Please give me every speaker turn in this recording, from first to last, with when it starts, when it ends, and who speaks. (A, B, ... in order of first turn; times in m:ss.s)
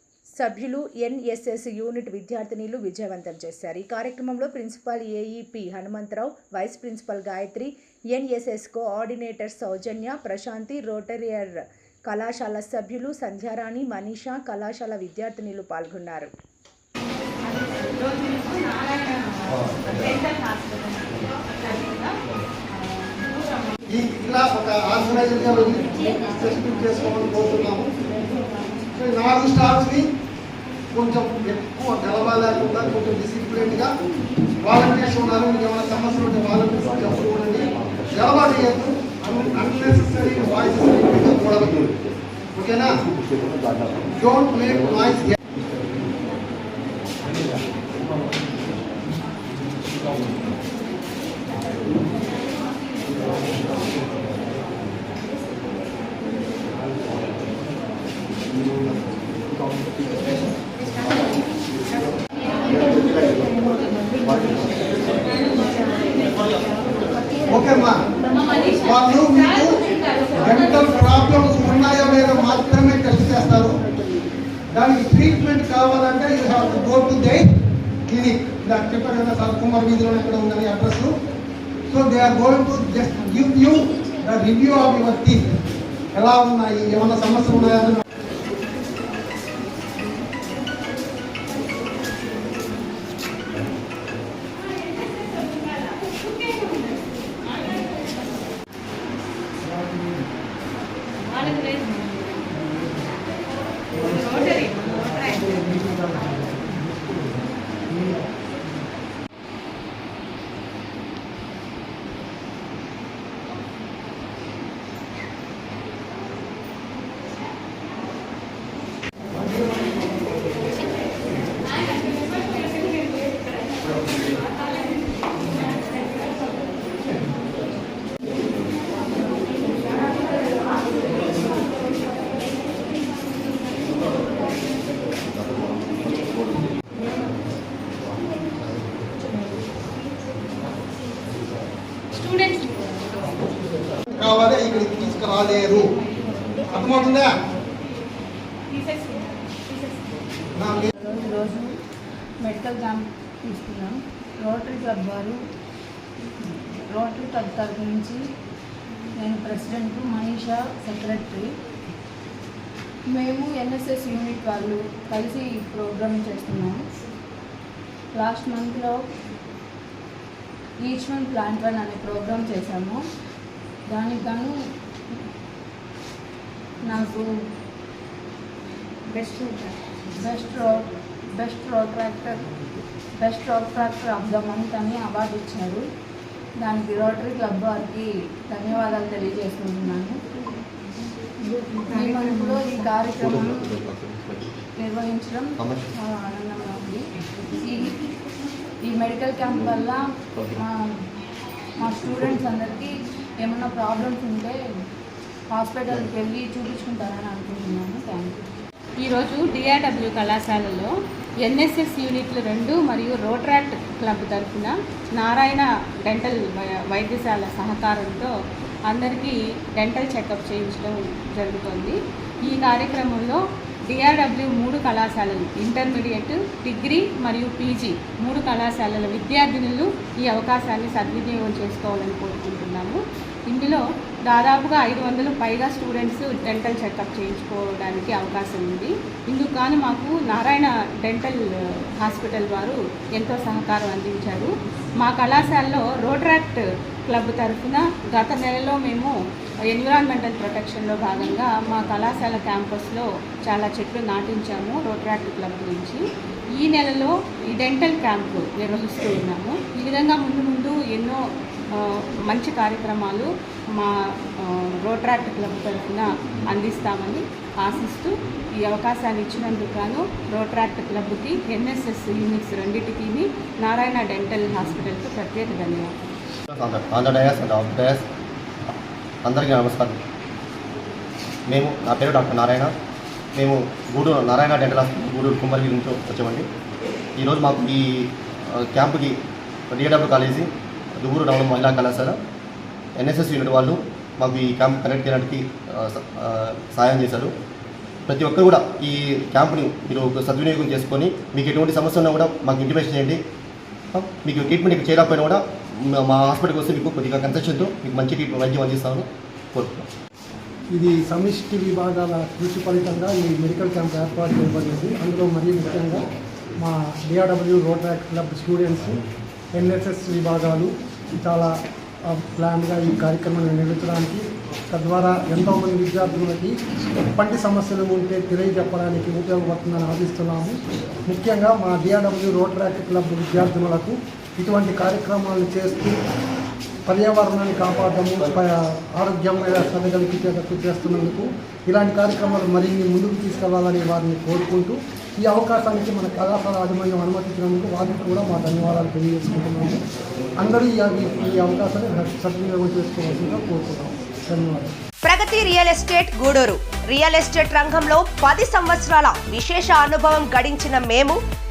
0:00.4-0:16.3 A
0:17.4-0:22.2 B
0:22.8-0:23.7 B
0:24.0-0:27.9 C
0:26.8-0:27.5 D
0:29.0-0:30.1 C
0:30.9-0:33.9 C
0:34.6-0:41.8 C
0:42.6-0:42.9 C
0:44.2-0:45.3 C
1:07.5-1:08.0 C
1:08.8-1:09.8 C
1:10.4-1:13.8 C
1:14.7-1:17.4 C
1:18.1-1:21.1 C
1:21.9-1:25.4 C
1:26.1-1:28.0 C
1:34.9-1:38.0 B
1:39.6-1:40.3 D
1:41.4-1:41.7 D
1:41.4-1:42.4 B
1:42.6-1:43.1 D
1:44.0-1:48.3 D
1:44.0-1:45.5 B
2:22.1-2:23.4 B
2:24.1-2:25.9 C
2:26.7-2:27.3 C
2:28.7-2:30.1 B
2:30.6-2:30.9 C
2:31.0-2:31.7 E
2:32.4-2:35.4 E
2:36.9-2:38.2 E
2:39.2-2:41.5 E
2:43.1-2:46.8 E
2:48.1-2:49.0 E
2:50.8-2:53.0 E
2:53.9-2:54.6 E
2:56.8-2:57.3 E
2:59.1-3:02.4 E
3:03.2-3:05.8 E
3:06.6-3:10.2 E
3:11.5-3:13.8 E
3:12.1-3:12.6 B
3:13.8-3:14.4 F
3:14.8-3:18.0 E
3:18.8-3:20.9 E
3:21.8-3:24.6 E
3:25.5-3:28.5 E
3:29.0-3:30.9 B
3:31.4-3:38.3 B
3:38.9-3:53.0 B
3:53.5-4:01.4 B
4:02.0-4:09.2 B
4:09.7-4:16.0 B
4:16.6-4:21.2 B
4:21.8-4:36.0 B
4:36.5-4:38.0 F
4:38.7-4:40.0 F
4:41.5-4:42.7 F
4:43.4-4:46.5 F
4:47.2-4:49.2 F
4:49.7-4:52.2 F
4:53.0-4:57.3 F
4:58.1-5:03.2 F
5:03.9-5:09.9 F
5:10.7-5:16.0 D
5:16.6-5:19.0 D
5:19.5-5:26.6 D
5:27.1-5:36.0 D
5:36.9-5:49.8 D
5:50.4-5:54.7 D
5:55.0-6:01.2 G